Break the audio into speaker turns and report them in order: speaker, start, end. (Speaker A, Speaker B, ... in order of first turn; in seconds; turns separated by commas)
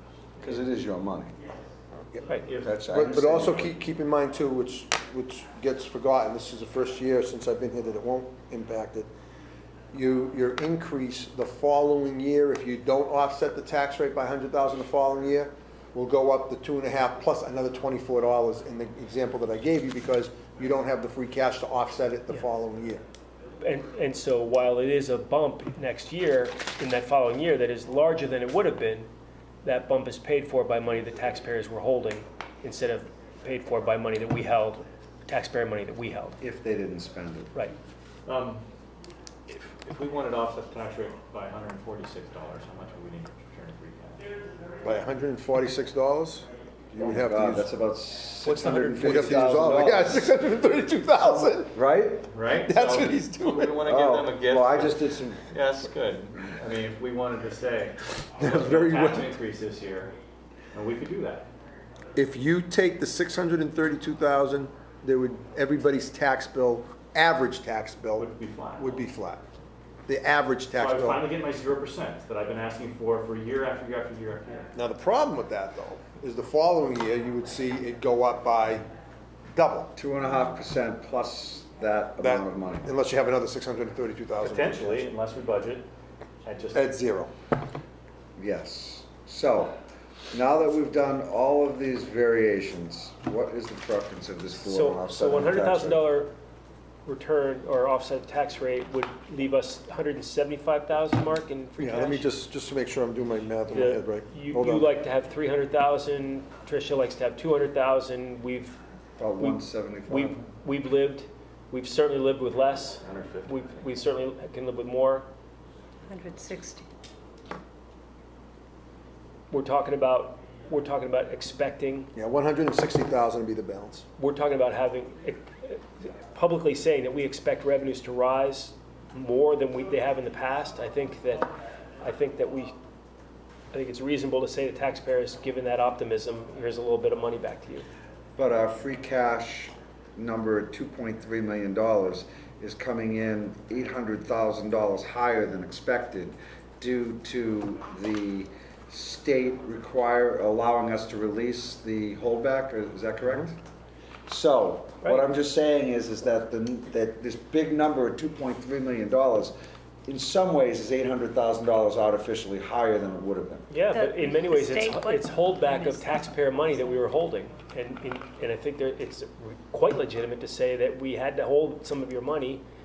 Speaker A: 0.4-1.3, Speaker A: 2.6-3.7, Speaker B: 2.7-9.1, Speaker B: 9.9-23.0, Speaker C: 23.6-29.1, Speaker C: 29.6-36.4, Speaker A: 36.4-37.5, Speaker D: 38.2-38.6, Speaker D: 39.5-44.2, Speaker B: 44.8-47.7, Speaker A: 47.0-50.2, Speaker B: 48.4-51.8, Speaker A: 51.4-52.3, Speaker D: 52.3-60.1, Speaker B: 52.6-53.8, Speaker A: 53.8-55.4, Speaker B: 58.4-59.3, Speaker D: 60.7-61.5, Speaker B: 62.1-69.4, Speaker D: 68.2-69.0, Speaker B: 70.0-71.2, Speaker D: 70.7-74.7, Speaker B: 74.7-78.8, Speaker B: 79.5-79.9, Speaker A: 80.0-82.9, Speaker B: 82.2-85.0, Speaker D: 84.4-85.8, Speaker D: 86.4-86.9, Speaker B: 86.7-87.3, Speaker A: 88.4-89.8, Speaker A: 90.3-96.0, Speaker C: 94.6-96.3, Speaker C: 97.0-102.2, Speaker B: 101.8-104.9, Speaker C: 103.7-108.8, Speaker A: 109.2-110.4, Speaker C: 109.4-115.3, Speaker D: 113.0-113.5, Speaker E: 116.1-116.8, Speaker C: 119.5-122.1, Speaker B: 122.1-124.0, Speaker C: 124.2-131.5, Speaker C: 132.0-132.7, Speaker C: 133.7-137.8, Speaker A: 138.4-153.6, Speaker A: 154.3-159.5, Speaker A: 160.1-163.7, Speaker C: 163.7-172.6, Speaker E: 163.9-166.2